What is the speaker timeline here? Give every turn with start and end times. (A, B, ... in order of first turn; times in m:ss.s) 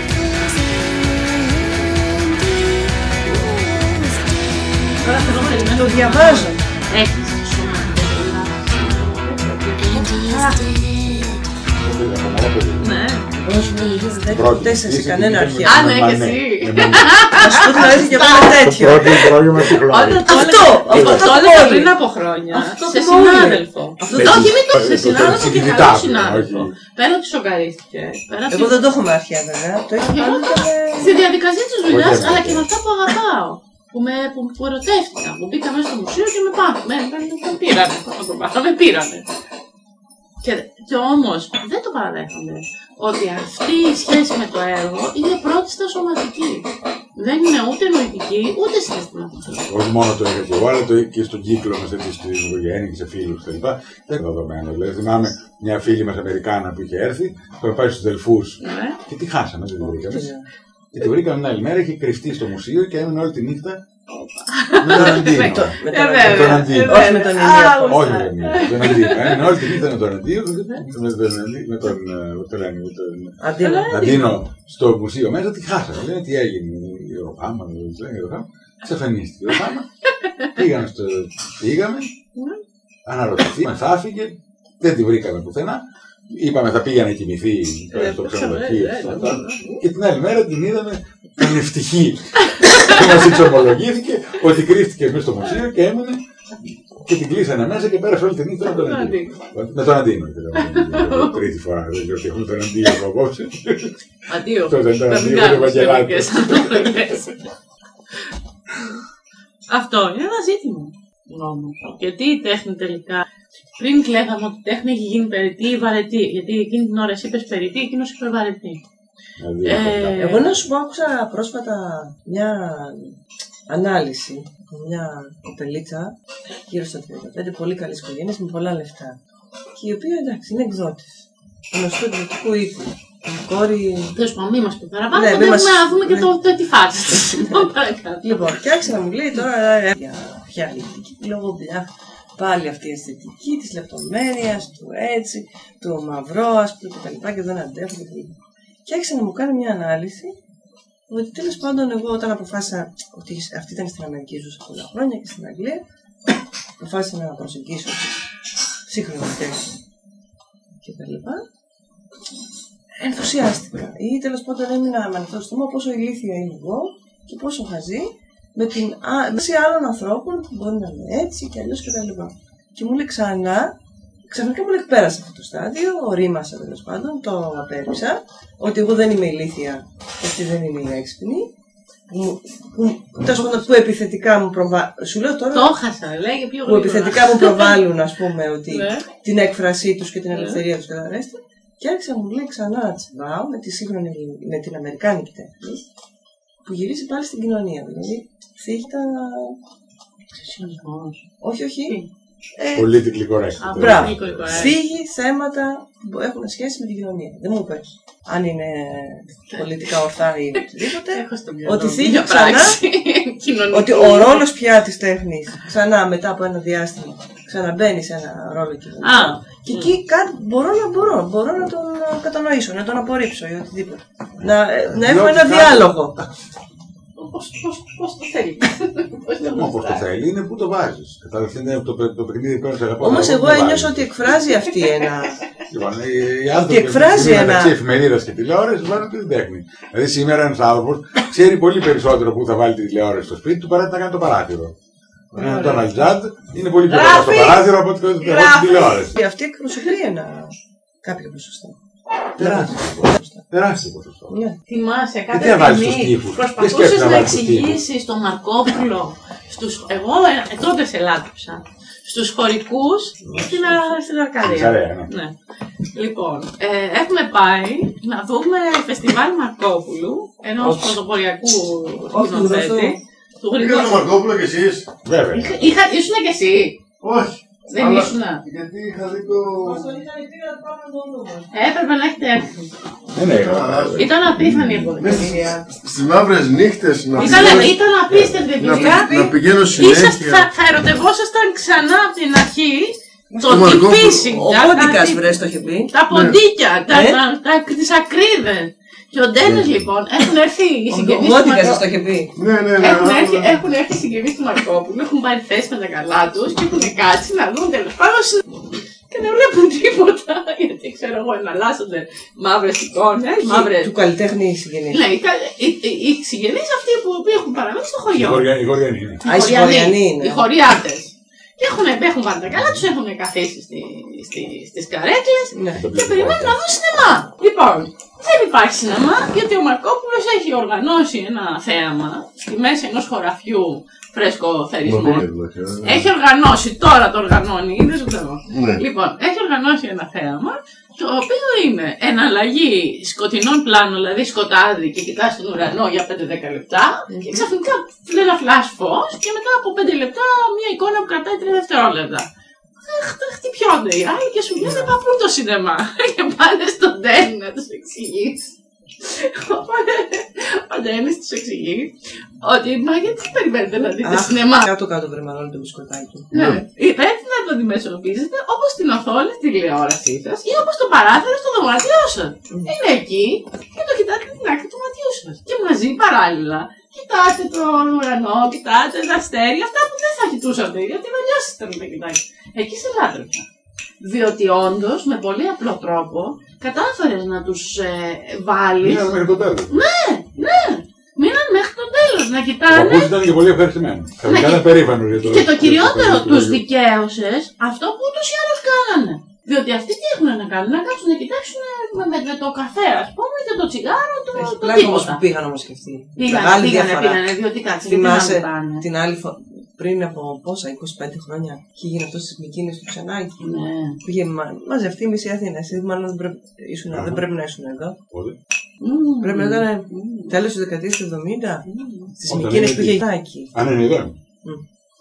0:01.1-0:02.2 A
0:03.2-0:04.1 A
0:05.0-0:10.9 B
0:05.0-0:06.6 A
0:11.8-0:13.0 C
0:12.8-0:13.3 B
0:13.3-0:15.9 A
0:14.3-0:17.2 C
0:15.6-0:18.6 B
0:17.4-0:19.3 A
0:18.5-0:20.2 C
0:19.6-0:28.9 B
0:20.3-0:22.0 A
0:20.9-0:21.3 C
0:22.5-0:24.5 A
0:24.1-0:26.7 C
0:28.5-0:31.2 A
0:30.0-0:39.3 B
0:31.8-0:32.7 C
0:40.4-0:49.6 B
0:49.7-1:00.3 C
0:58.6-0:59.0 B
0:59.8-1:00.4 A
1:00.9-1:03.8 C
1:04.1-1:09.8 B
1:04.8-1:07.0 C
1:04.9-1:08.1 A
1:07.8-1:19.9 C
1:13.4-1:13.9 A
1:13.6-1:14.4 B
1:20.2-1:20.5 B
1:20.5-1:22.1 C
1:22.3-1:22.6 B
1:23.1-1:36.2 C
1:27.9-1:29.8 B
1:32.4-1:33.2 B
1:37.0-1:43.9 C
1:38.6-1:39.4 B
1:40.6-1:41.5 B
1:44.3-1:47.4 B
1:44.7-1:46.8 C
1:49.7-1:53.2 B
1:53.8-1:58.8 B
1:59.4-2:00.6 C
1:59.6-2:00.4 B
2:00.2-2:03.2 A
2:03.7-2:06.1 A
2:06.7-2:09.2 A
2:09.8-2:14.2 A
2:14.2-2:18.6 B
2:15.1-2:16.3 A
2:17.1-2:17.7 A
2:18.2-2:30.3 A
2:31.1-2:35.8 A
2:36.8-2:38.2 A
2:38.8-2:39.7 A
2:40.8-2:41.4 A
2:43.0-2:53.7 A
2:54.3-3:01.5 A
3:02.1-3:05.8 A
3:03.3-3:03.7 B
3:05.5-3:07.8 B
3:06.6-3:15.8 A
3:08.7-3:09.0 B
3:10.3-3:10.6 B
3:16.6-3:19.6 A
3:20.4-3:21.2 B
3:21.4-3:22.0 A
3:22.6-3:23.0 A
3:22.8-3:24.7 C
3:23.6-3:24.8 B
3:23.8-3:32.8 A
3:30.6-3:34.4 B
3:33.7-3:46.1 A
3:39.0-3:39.9 B
3:44.8-3:46.3 C
3:47.2-3:50.0 B
3:49.6-3:54.4 C
3:53.0-3:55.4 A
3:55.7-4:04.7 C
3:56.6-3:57.8 A
4:05.3-4:09.1 C
4:05.4-4:06.1 B
4:06.9-4:07.7 B
4:08.2-4:09.1 B
4:09.1-4:11.8 A
4:12.4-4:13.4 A
4:12.4-4:14.4 C
4:14.3-4:14.6 A
4:14.7-4:25.3 B
4:15.3-4:17.8 C
4:23.2-4:23.8 C
4:23.3-4:23.9 A
4:24.4-4:25.1 C
4:25.9-4:34.0 B
4:30.6-4:31.0 A
4:32.1-4:33.0 A
4:33.6-4:34.9 D
4:35.0-4:35.8 C
4:35.3-4:36.8 B
4:37.0-4:40.0 D
4:37.7-4:38.4 B
4:39.6-4:41.5 A
4:41.5-4:42.7 B
4:43.1-4:44.3 C
4:43.2-4:50.5 D
4:43.9-4:45.5 B
4:45.1-4:45.7 A
4:47.2-5:01.8 B
4:47.2-4:47.6 A
4:48.1-4:48.4 C
4:48.7-4:49.4 A
4:53.3-4:55.9 A
4:53.5-4:54.2 D
4:56.1-4:56.4 D
4:56.9-4:57.2 A
4:59.4-4:59.7 D
5:00.9-5:02.4 A
5:02.3-5:03.6 D
5:02.8-5:08.4 B
5:09.1-5:13.9 B
5:13.4-5:15.0 A
5:14.9-5:18.5 B
5:18.1-5:19.2 C
5:19.2-5:35.2 B
5:19.2-5:20.5 A
5:22.5-5:22.9 C
5:25.5-5:25.8 A
5:25.8-5:26.6 C
5:34.8-5:36.1 D
5:35.8-5:52.3 B
5:38.5-5:38.8 D
5:47.1-5:47.5 A
5:52.8-6:04.7 B
5:54.6-5:54.9 A
6:03.9-6:06.3 A
6:06.3-6:23.4 B
6:06.3-6:06.6 D
6:24.0-6:29.1 B
6:28.8-6:29.8 C
6:29.7-6:33.1 B
6:32.7-6:36.6 C
6:34.2-6:45.2 B
6:44.3-6:47.2 A
6:46.2-6:48.9 B
6:47.8-6:53.4 A
6:53.4-6:54.0 B
6:54.0-6:58.0 A
6:56.9-6:57.2 C
6:58.1-6:58.4 C
6:58.8-7:00.4 B
6:59.2-7:03.5 A
7:01.6-7:02.1 B
7:02.3-7:03.0 C
7:03.5-7:04.1 C